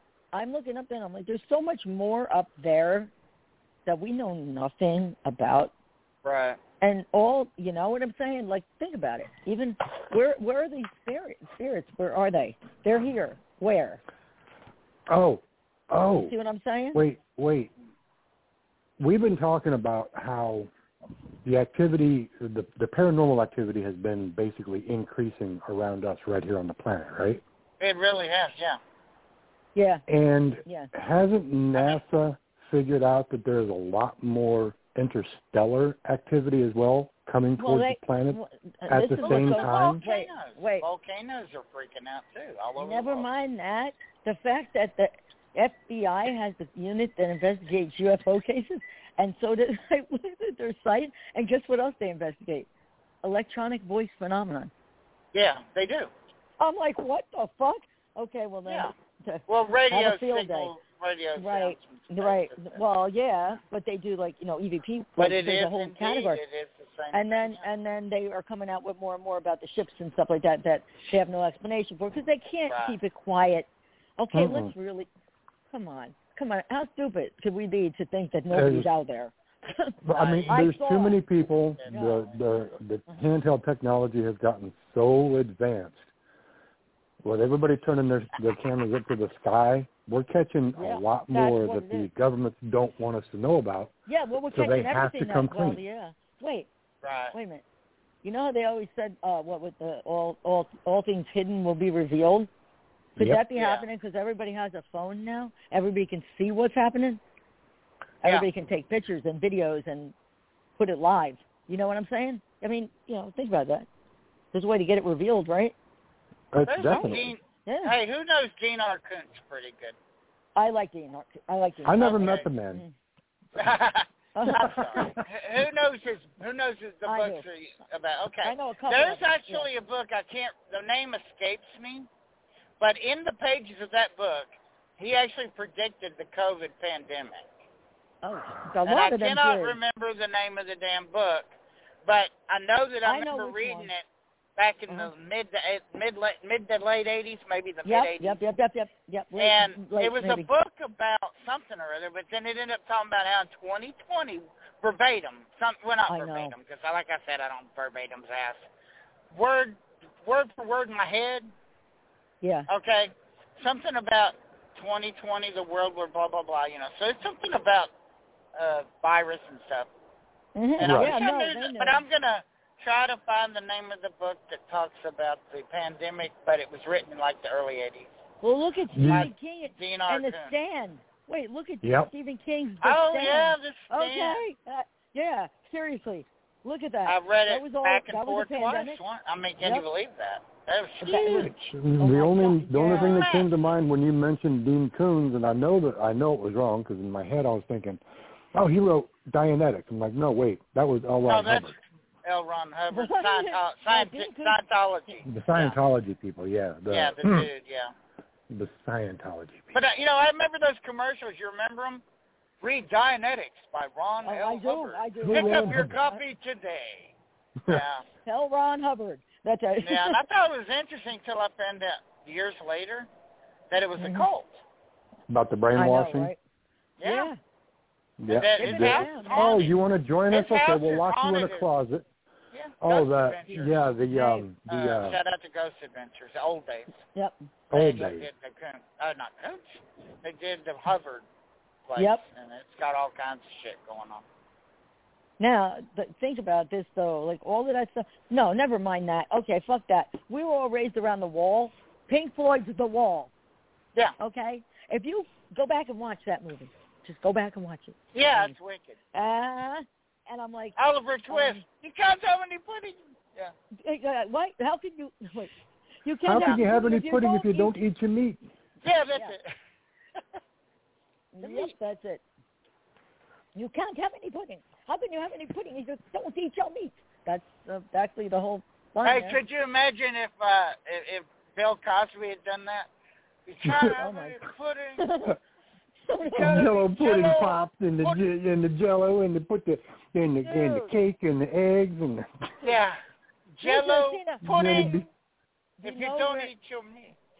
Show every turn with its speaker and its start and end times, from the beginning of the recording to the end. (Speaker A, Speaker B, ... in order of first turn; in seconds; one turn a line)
Speaker A: 0.3-3.1
Speaker A: 3.9-5.7
Speaker B: 6.2-6.6
Speaker A: 6.8-14.0
Speaker C: 15.1-16.3
Speaker A: 16.2-17.0
Speaker C: 16.9-17.7
Speaker C: 19.0-20.7
Speaker C: 21.4-27.4
Speaker B: 27.8-28.8
Speaker A: 29.7-30.0
Speaker C: 30.1-40.0
Speaker A: 30.6-30.9
Speaker A: 37.6-40.9
Speaker B: 39.2-43.3
Speaker A: 42.8-52.7
Speaker A: 53.2-54.7
Speaker B: 55.3-56.1
Speaker A: 56.6-60.7
Speaker B: 58.6-58.9
Speaker B: 59.5-62.8
Speaker A: 61.4-66.4
Speaker B: 65.2-67.7
Speaker A: 67.1-75.1
Speaker B: 72.7-73.0
Speaker C: 74.3-74.7
Speaker A: 75.7-79.9
Speaker C: 78.5-78.9
Speaker C: 80.0-86.1
Speaker B: 80.1-80.6
Speaker A: 80.5-81.2
Speaker B: 81.8-82.4
Speaker A: 81.9-82.3
Speaker C: 87.2-93.9
Speaker A: 90.8-92.1
Speaker A: 94.1-96.7
Speaker C: 94.5-95.8
Speaker B: 97.0-97.3
Speaker A: 97.3-97.6
Speaker A: 98.2-102.5
Speaker A: 103.2-107.2
Speaker C: 103.2-103.4
Speaker B: 103.5-103.8
Speaker A: 108.2-110.1
Speaker A: 110.8-113.9
Speaker A: 114.5-115.7
Speaker C: 116.5-117.3
Speaker B: 116.6-120.0
Speaker A: 116.9-117.9
Speaker A: 120.5-122.9
Speaker C: 121.8-122.8
Speaker B: 122.0-122.4
Speaker B: 123.6-132.1
Speaker A: 124.3-124.7
Speaker C: 124.5-125.2
Speaker A: 127.0-127.4
Speaker A: 128.4-129.7
Speaker B: 132.8-137.4
Speaker A: 138.2-139.8
Speaker B: 138.8-141.5
Speaker B: 142.0-144.0
Speaker A: 143.0-143.9
Speaker B: 144.6-148.4
Speaker A: 147.8-150.5
Speaker B: 149.3-158.7
Speaker A: 156.1-156.5
Speaker B: 159.3-161.5
Speaker A: 162.4-162.7
Speaker B: 162.7-167.9
Speaker B: 168.6-169.9
Speaker A: 170.6-172.0
Speaker B: 170.8-178.1
Speaker C: 170.8-171.1
Speaker A: 178.4-189.0
Speaker C: 178.9-179.3
Speaker B: 179.1-180.5
Speaker C: 181.8-182.1
Speaker B: 182.8-184.4
Speaker B: 187.1-191.5
Speaker A: 189.6-189.8
Speaker C: 191.0-198.0
Speaker A: 192.0-193.3
Speaker B: 192.9-193.5
Speaker C: 198.5-201.8
Speaker B: 201.3-205.8
Speaker A: 202.9-204.6
Speaker C: 205.2-207.5
Speaker B: 206.9-207.9
Speaker C: 208.5-209.7
Speaker B: 209.7-212.0
Speaker B: 212.6-217.1
Speaker A: 214.2-216.2
Speaker C: 215.2-215.9
Speaker B: 217.7-218.0
Speaker A: 218.2-220.2
Speaker B: 219.8-223.1
Speaker B: 223.7-224.6
Speaker A: 224.0-224.3
Speaker C: 225.3-226.3
Speaker A: 225.7-226.4
Speaker B: 227.0-227.3
Speaker A: 227.0-227.4
Speaker C: 228.2-232.1
Speaker B: 228.3-229.8
Speaker A: 228.6-229.5
Speaker B: 230.3-231.7
Speaker B: 232.5-233.7
Speaker C: 232.8-235.2
Speaker A: 234.0-234.5
Speaker B: 234.7-237.0
Speaker C: 237.7-238.3
Speaker B: 237.7-241.2
Speaker B: 241.9-244.2
Speaker A: 241.9-242.2
Speaker A: 245.4-253.3
Speaker A: 254.2-258.5
Speaker B: 258.1-259.0
Speaker A: 259.1-260.8
Speaker B: 260.8-263.5
Speaker A: 261.3-261.6
Speaker A: 263.8-265.5
Speaker A: 266.0-267.8
Speaker C: 266.2-268.4
Speaker B: 268.8-269.5
Speaker A: 271.3-272.2
Speaker B: 271.4-271.7
Speaker A: 273.5-279.4
Speaker B: 279.0-282.9
Speaker B: 283.5-285.1
Speaker C: 283.6-283.9
Speaker A: 283.8-284.4
Speaker A: 285.0-285.4
Speaker A: 286.1-286.7
Speaker B: 286.2-288.2
Speaker C: 286.4-292.3
Speaker A: 290.4-290.9
Speaker B: 292.6-293.0
Speaker B: 293.6-295.1
Speaker A: 293.6-294.9
Speaker C: 294.4-295.1
Speaker A: 295.8-296.5
Speaker B: 295.8-297.2